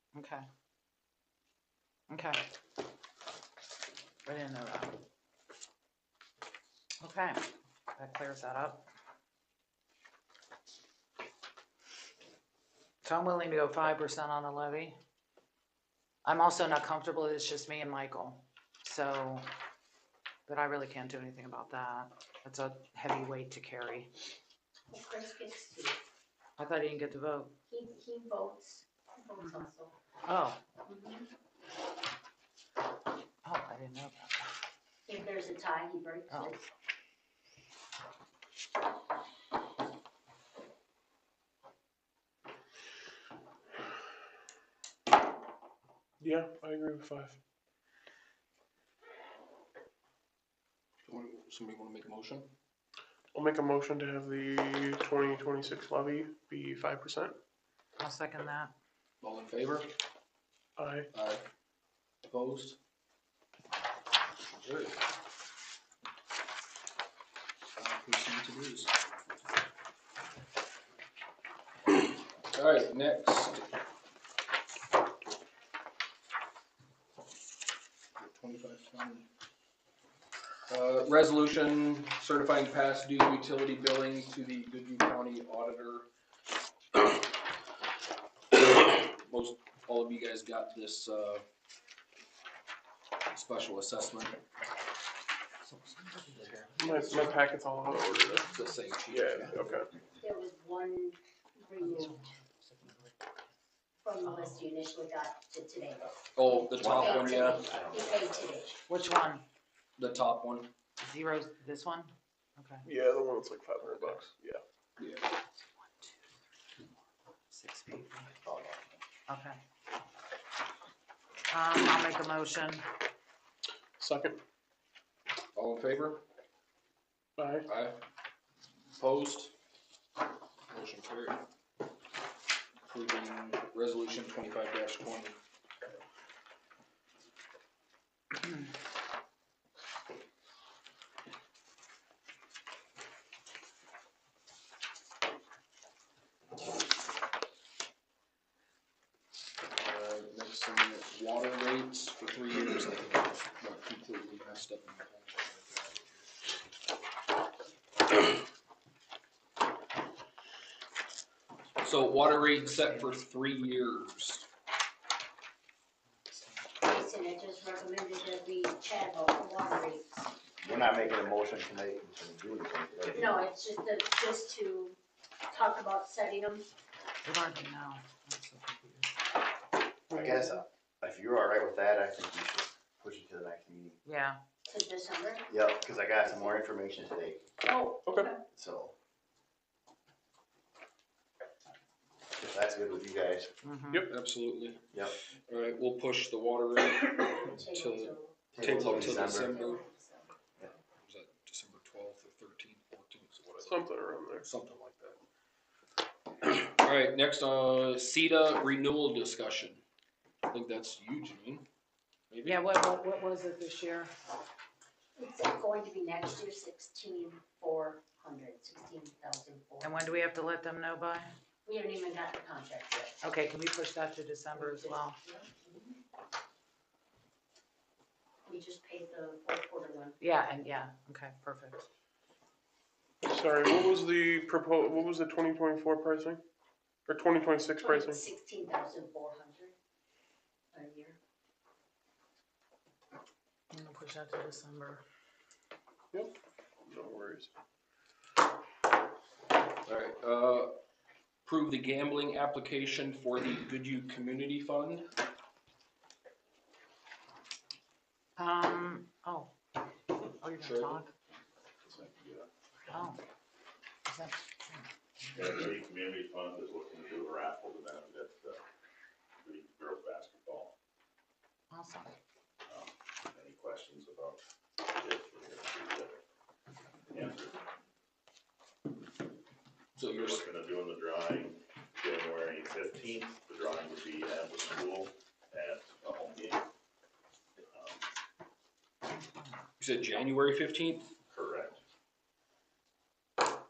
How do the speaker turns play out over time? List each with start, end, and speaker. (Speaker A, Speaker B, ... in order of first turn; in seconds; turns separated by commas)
Speaker A: 0.1-0.4, Speaker A: 2.1-2.4, Speaker A: 4.2-5.0, Speaker A: 7.0-7.4, Speaker A: 8.0-8.9, Speaker A: 13.0-14.9, Speaker A: 16.2-19.4, Speaker A: 20.5-24.1, Speaker B: 24.9-26.0, Speaker A: 26.6-27.6, Speaker B: 27.7-29.9, Speaker A: 30.2-30.6, Speaker B: 30.9-31.2, Speaker A: 33.4-34.4, Speaker B: 35.0-36.6, Speaker A: 36.3-36.5, Speaker C: 46.2-47.4, Speaker D: 51.0-52.5, Speaker C: 53.3-57.4, Speaker A: 58.0-58.7, Speaker D: 59.2-59.9, Speaker C: 60.8-61.0, Speaker D: 61.1-61.4, Speaker D: 62.2-62.8, Speaker D: 64.5-65.0, Speaker D: 67.8-68.9, Speaker D: 72.5-73.6, Speaker D: 78.2-79.2, Speaker D: 80.7-86.1, Speaker D: 88.5-91.4, Speaker D: 93.3-94.3, Speaker A: 95.7-97.3, Speaker C: 96.8-98.3, Speaker A: 98.3-98.7, Speaker D: 98.4-99.7, Speaker C: 99.1-99.8, Speaker B: 100.2-102.1, Speaker A: 101.8-103.2, Speaker B: 104.0-108.8, Speaker A: 104.2-104.6, Speaker D: 106.3-107.7, Speaker E: 106.8-108.6, Speaker A: 108.9-109.4, Speaker D: 110.0-110.7, Speaker A: 111.0-112.9, Speaker C: 112.8-114.6, Speaker A: 117.5-118.3, Speaker E: 118.4-119.0, Speaker A: 119.3-119.6, Speaker A: 121.5-122.9, Speaker C: 124.0-124.4, Speaker D: 125.5-126.2, Speaker C: 127.4-127.6, Speaker D: 127.7-128.0, Speaker D: 128.9-129.5, Speaker D: 130.7-131.4, Speaker D: 132.8-135.3, Speaker D: 149.8-156.3, Speaker D: 161.8-164.4, Speaker A: 162.3-163.1, Speaker A: 166.3-166.6, Speaker B: 166.8-170.2, Speaker E: 170.6-173.4, Speaker B: 173.1-175.0, Speaker B: 175.5-176.7, Speaker A: 177.2-179.1, Speaker E: 180.1-184.0, Speaker C: 180.1-180.6, Speaker A: 184.1-184.4, Speaker B: 184.7-185.4, Speaker E: 185.5-187.4, Speaker B: 186.2-186.5, Speaker B: 187.6-188.4, Speaker E: 188.5-188.9, Speaker E: 192.4-193.5, Speaker A: 193.6-194.1, Speaker D: 193.9-194.9, Speaker D: 195.5-199.8, Speaker B: 197.3-200.6, Speaker E: 198.5-199.6, Speaker D: 201.0-203.9, Speaker C: 203.6-204.4, Speaker D: 204.4-205.2, Speaker D: 206.4-209.8, Speaker D: 210.5-211.6, Speaker D: 212.3-212.6, Speaker A: 212.4-214.1, Speaker B: 215.2-220.1, Speaker A: 219.8-221.3, Speaker B: 221.6-223.2, Speaker A: 223.2-225.2, Speaker B: 224.5-226.0, Speaker B: 228.4-230.2, Speaker A: 230.2-231.9, Speaker C: 233.2-236.4, Speaker C: 237.1-238.2, Speaker B: 237.8-239.8, Speaker B: 240.7-241.2, Speaker A: 243.7-245.0, Speaker C: 246.8-247.5, Speaker D: 249.8-250.7, Speaker D: 251.4-255.1, Speaker A: 258.4-259.5, Speaker A: 260.4-261.1, Speaker D: 260.6-261.0, Speaker F: 261.8-262.5, Speaker A: 262.9-263.2, Speaker A: 264.1-264.9, Speaker F: 265.3-268.6, Speaker F: 269.4-270.7, Speaker A: 271.7-272.1, Speaker F: 272.6-276.2, Speaker F: 277.1-277.6, Speaker D: 280.0-280.4, Speaker F: 280.1-286.7, Speaker F: 287.6-288.0, Speaker D: 289.8-291.1, Speaker F: 291.3-291.8